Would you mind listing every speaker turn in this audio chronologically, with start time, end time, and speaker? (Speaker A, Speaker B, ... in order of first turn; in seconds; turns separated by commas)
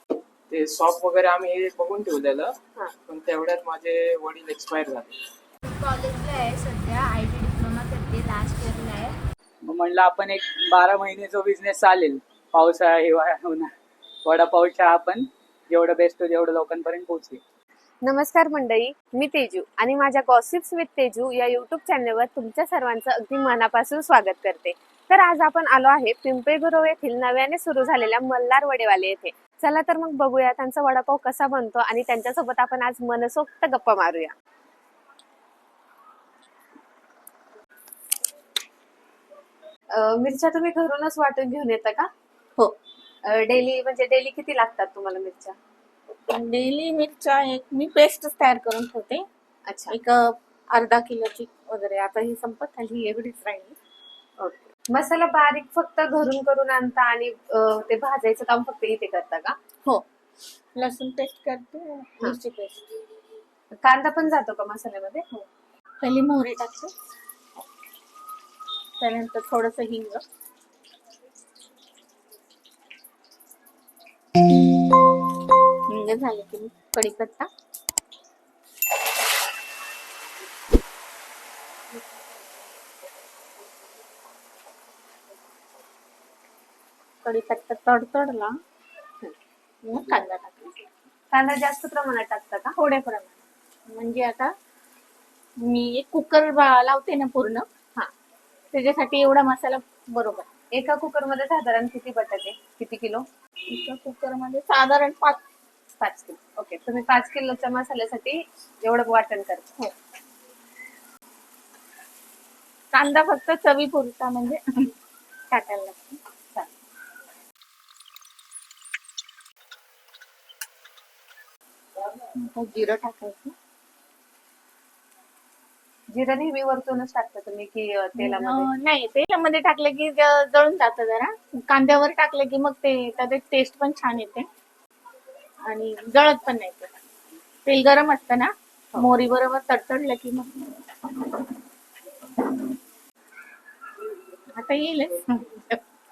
Speaker A: 0.5-2.5, Speaker A: 3.1-5.1, Speaker B: 5.7-9.1, Speaker C: 9.7-13.7, Speaker C: 14.2-17.4, Speaker D: 18.0-34.3, Speaker D: 40.0-42.1, Speaker D: 43.3-45.5, Speaker E: 46.3-49.2, Speaker D: 49.7-50.0, Speaker E: 49.9-53.8, Speaker D: 54.4-59.6, Speaker E: 60.8-62.9, Speaker D: 63.8-65.2, Speaker E: 66.0-66.9, Speaker E: 69.0-70.2, Speaker E: 75.9-77.5, Speaker E: 87.2-88.6, Speaker E: 89.8-90.8, Speaker D: 91.3-92.8, Speaker E: 92.8-94.5, Speaker E: 95.7-97.7, Speaker E: 98.7-100.5, Speaker D: 100.7-103.2, Speaker E: 103.7-105.4, Speaker D: 106.0-109.8, Speaker E: 112.9-114.9, Speaker E: 115.5-116.2, Speaker E: 122.2-123.5, Speaker D: 126.1-128.7, Speaker E: 128.2-134.5, Speaker E: 135.7-136.9, Speaker E: 137.7-140.6, Speaker E: 144.5-145.8